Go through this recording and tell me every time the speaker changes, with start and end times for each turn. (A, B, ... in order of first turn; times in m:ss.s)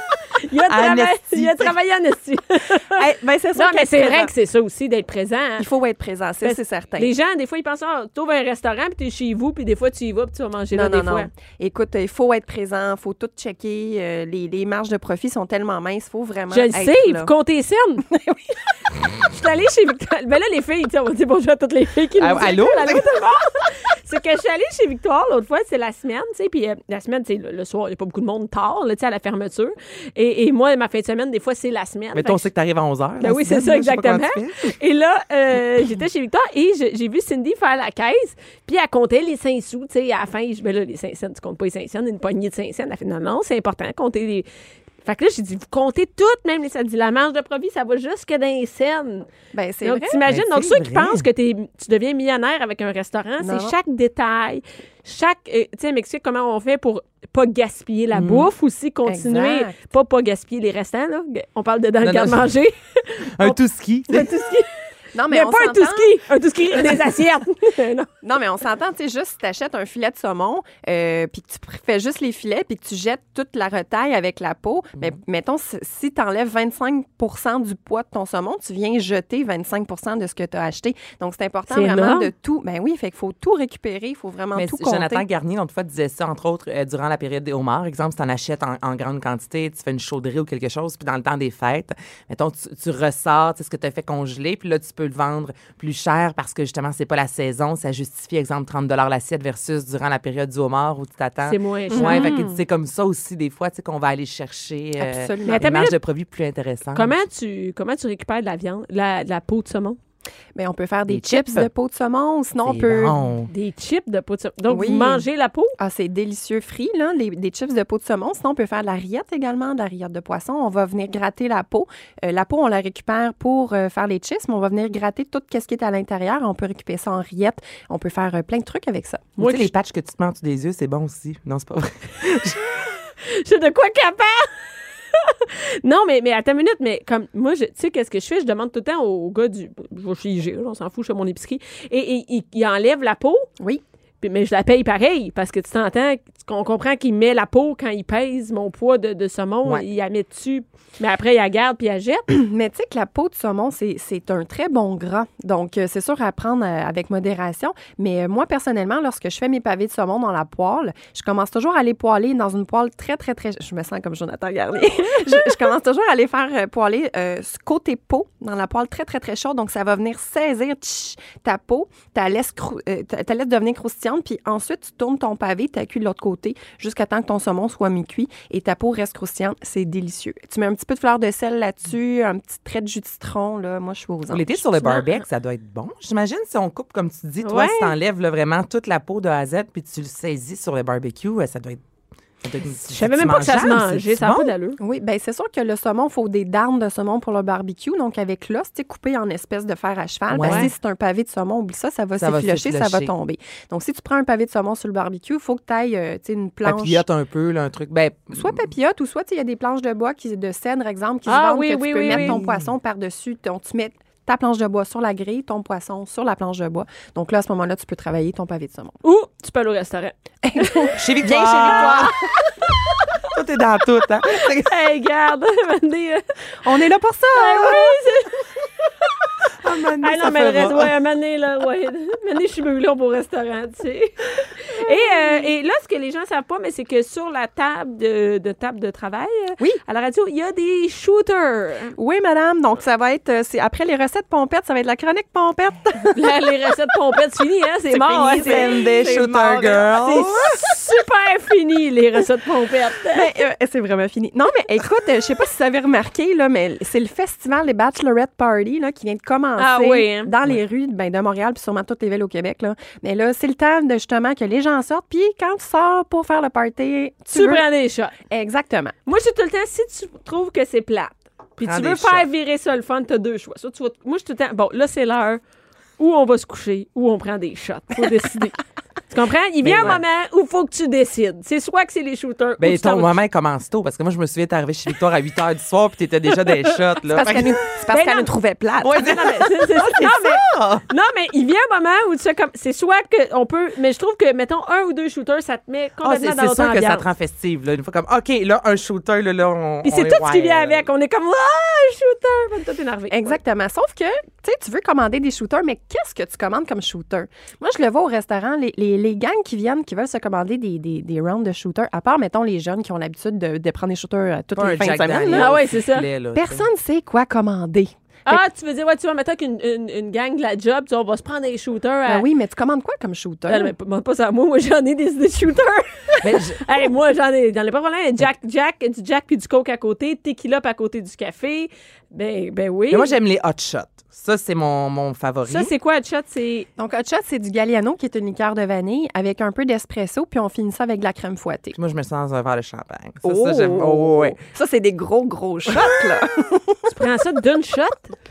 0:00.3-0:03.0 A
0:00.7-0:01.7 B
0:02.9-0:04.3 C
0:03.6-0:05.7 A
0:05.6-0:07.1 C
0:06.4-0:11.3 A
0:10.7-0:17.3 C
0:16.5-0:18.1 A
0:18.0-0:18.4 C
0:19.3-0:32.5 A
0:22.2-0:23.0 B
0:32.2-0:34.8 B
0:33.2-0:44.5 A
0:45.0-0:49.3 A
0:49.5-0:50.2 C
0:49.8-1:04.7 A
0:50.3-0:51.3 B
0:53.4-0:53.8 C
0:58.1-0:58.5 B
0:59.1-0:59.8 C
1:02.0-1:02.5 B
1:03.4-1:04.3 B
1:05.1-1:06.2 C
1:05.3-1:08.1 A
1:08.2-1:25.2 C
1:21.7-1:22.3 A
1:24.6-1:47.2 B
1:41.4-1:42.4 A
1:41.9-1:42.6 C
1:45.0-1:45.8 C
1:45.4-1:46.0 A
1:47.0-1:50.0 A
1:50.6-1:53.2 C
1:51.1-1:51.7 B
1:52.6-1:53.5 B
1:53.5-1:55.7 A
1:54.7-1:55.3 C
1:55.8-2:09.6 C
2:09.4-2:12.6 B
2:13.2-2:14.5 A
2:15.1-2:23.5 A
2:24.2-2:32.3 A
2:32.3-3:04.9 C
3:04.3-3:11.8 B
3:04.9-3:05.2 A
3:07.4-3:07.9 A
3:12.4-3:14.5 B
3:12.9-3:14.8 A
3:14.8-3:27.0 C
3:20.3-3:20.7 B
3:20.4-3:20.7 A
3:22.2-3:23.1 B
3:26.6-3:28.6 B
3:28.3-3:39.0 C
3:31.3-3:32.4 A
3:32.1-3:32.7 B
3:39.0-3:41.0 A
3:40.4-3:42.3 C
3:41.0-3:42.2 B
3:41.7-3:42.3 A
3:43.2-3:44.8 B
3:44.4-3:46.2 A
3:46.6-3:48.0 C
3:47.3-3:48.4 A
3:49.6-3:50.9 B
3:50.0-4:02.0 A
3:54.8-3:55.5 C
4:02.0-4:06.2 C
4:06.2-4:13.3 A
4:07.9-4:09.9 C
4:08.1-4:10.6 B
4:13.1-4:27.6 C
4:19.6-4:20.3 A
4:27.3-4:28.2 A
4:28.2-4:29.0 C
4:29.1-4:35.4 A
4:31.6-4:32.2 B
4:36.0-4:43.1 A
4:39.6-4:40.0 B
4:42.6-4:47.6 B
4:47.1-4:49.3 C
4:47.9-4:48.3 A
4:48.8-4:50.8 B
4:49.0-4:57.0 A
4:56.0-5:00.9 B
4:59.8-5:03.4 A
5:03.1-5:15.6 C
5:14.6-5:16.7 B
5:15.3-5:16.1 A
5:16.4-5:18.4 C
5:18.3-5:22.2 A
5:22.1-5:23.7 C
5:23.5-5:33.1 A
5:26.2-5:26.6 B
5:32.9-5:35.7 B
5:35.5-5:36.7 A
5:36.8-5:41.8 C
5:41.7-5:44.4 B
5:43.2-5:46.9 C
5:46.9-5:48.1 A